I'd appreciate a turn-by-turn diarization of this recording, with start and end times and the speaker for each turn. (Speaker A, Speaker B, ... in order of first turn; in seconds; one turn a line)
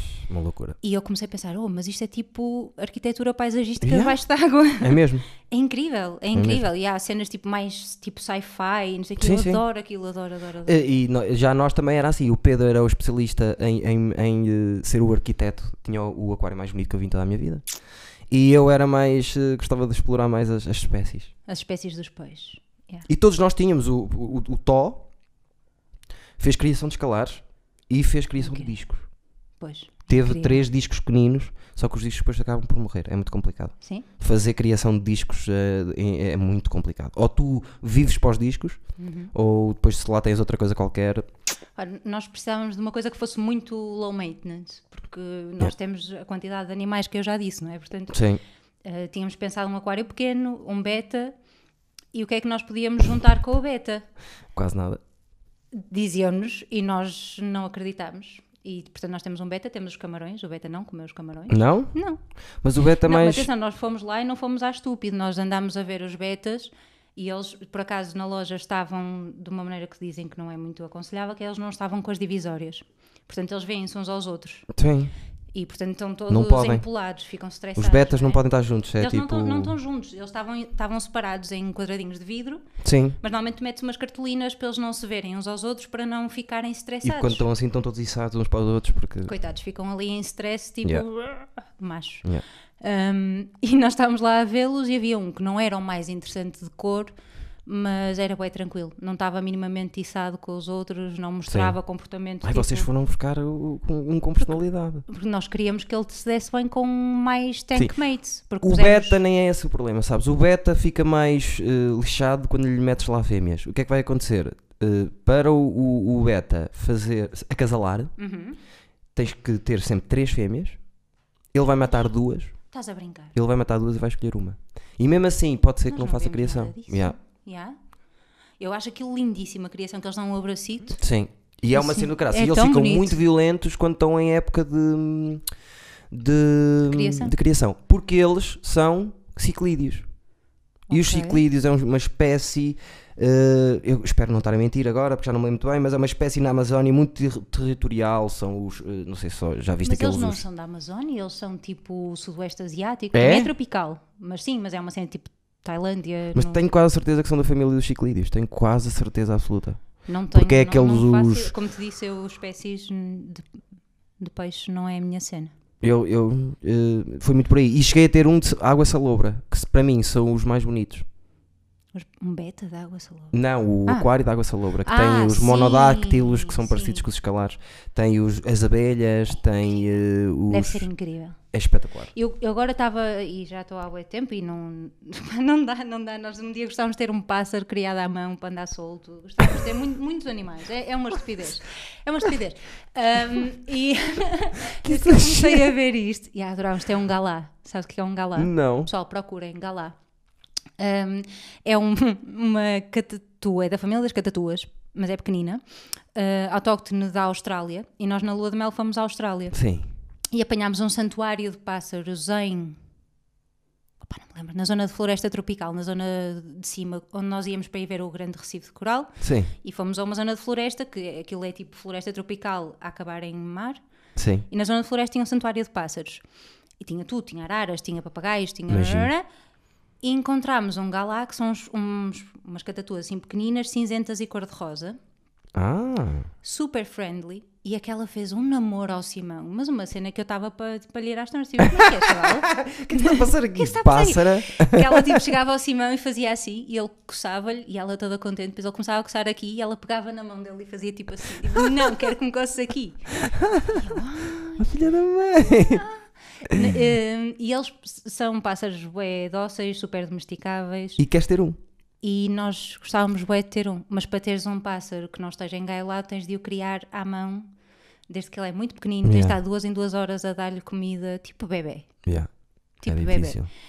Speaker A: 0.3-0.8
Speaker B: 0.8-10.8
Speaker A: 3.8-4.2
Speaker A: 4.8-5.3
Speaker A: 6.3-6.7
Speaker A: 9.2-9.6
Speaker A: 10.7-17.6
Speaker A: 18.3-21.3
Speaker B: 21.5-23.1
Speaker A: 23.1-25.1
Speaker A: 26.4-29.1
Speaker B: 28.4-28.7
Speaker B: 29.6-30.6
Speaker A: 30.1-38.8
Speaker B: 39.0-39.3
Speaker A: 39.3-41.3
Speaker B: 41.8-48.2
Speaker A: 48.1-48.4
Speaker B: 48.8-51.4
Speaker B: 52.1-54.0
Speaker A: 54.5-55.0
Speaker B: 55.7-62.2
Speaker A: 61.5-62.0
Speaker A: 62.6-63.5
Speaker B: 63.0-74.7
Speaker A: 74.7-75.1
Speaker B: 75.5-78.4
Speaker A: 76.3-76.8
Speaker A: 77.8-79.8
Speaker B: 79.0-82.6
Speaker A: 82.8-83.2
Speaker B: 83.2-87.4
Speaker A: 87.0-89.3
Speaker B: 89.3-92.3
Speaker B: 92.8-97.2
Speaker B: 97.7-102.9
Speaker A: 101.5-101.8
Speaker A: 102.4-105.1
Speaker B: 105.1-109.2
Speaker A: 108.6-118.1
Speaker B: 118.2-118.6
Speaker A: 119.2-120.8
Speaker A: 121.5-122.5
Speaker B: 122.7-123.3
Speaker A: 123.3-127.2
Speaker B: 125.9-127.8
Speaker B: 128.6-131.0
Speaker A: 131.0-135.4
Speaker B: 131.7-133.2
Speaker A: 136.1-140.1
Speaker B: 136.9-137.3
Speaker B: 140.9-141.4
Speaker A: 140.9-150.4
Speaker B: 149.8-156.6
Speaker A: 153.1-153.5
Speaker A: 156.3-159.8
Speaker B: 160.1-163.5
Speaker A: 160.3-161.5
Speaker B: 164.2-165.5
Speaker A: 165.8-171.1
Speaker B: 171.9-173.3
Speaker A: 173.3-180.9
Speaker B: 174.8-177.1
Speaker B: 180.5-181.4
Speaker A: 181.5-182.1
Speaker B: 182.1-200.0
Speaker A: 194.8-195.7
Speaker A: 198.4-198.9
Speaker B: 200.8-205.6
Speaker B: 206.1-209.6
Speaker A: 209.5-209.9
Speaker B: 210.3-212.8
Speaker B: 214.0-223.8
Speaker A: 219.2-219.5
Speaker A: 224.2-224.4
Speaker B: 224.5-226.2
Speaker B: 226.8-229.2
Speaker A: 228.7-229.1
Speaker B: 230.0-235.0
Speaker A: 235.6-236.3
Speaker B: 236.4-254.7
Speaker A: 241.6-245.2
Speaker A: 253.2-255.9
Speaker B: 255.4-261.0
Speaker A: 256.5-256.8
Speaker A: 261.0-261.6
Speaker B: 262.0-267.5
Speaker B: 268.1-271.9
Speaker A: 269.0-269.4
Speaker B: 272.8-273.4
Speaker A: 272.9-273.5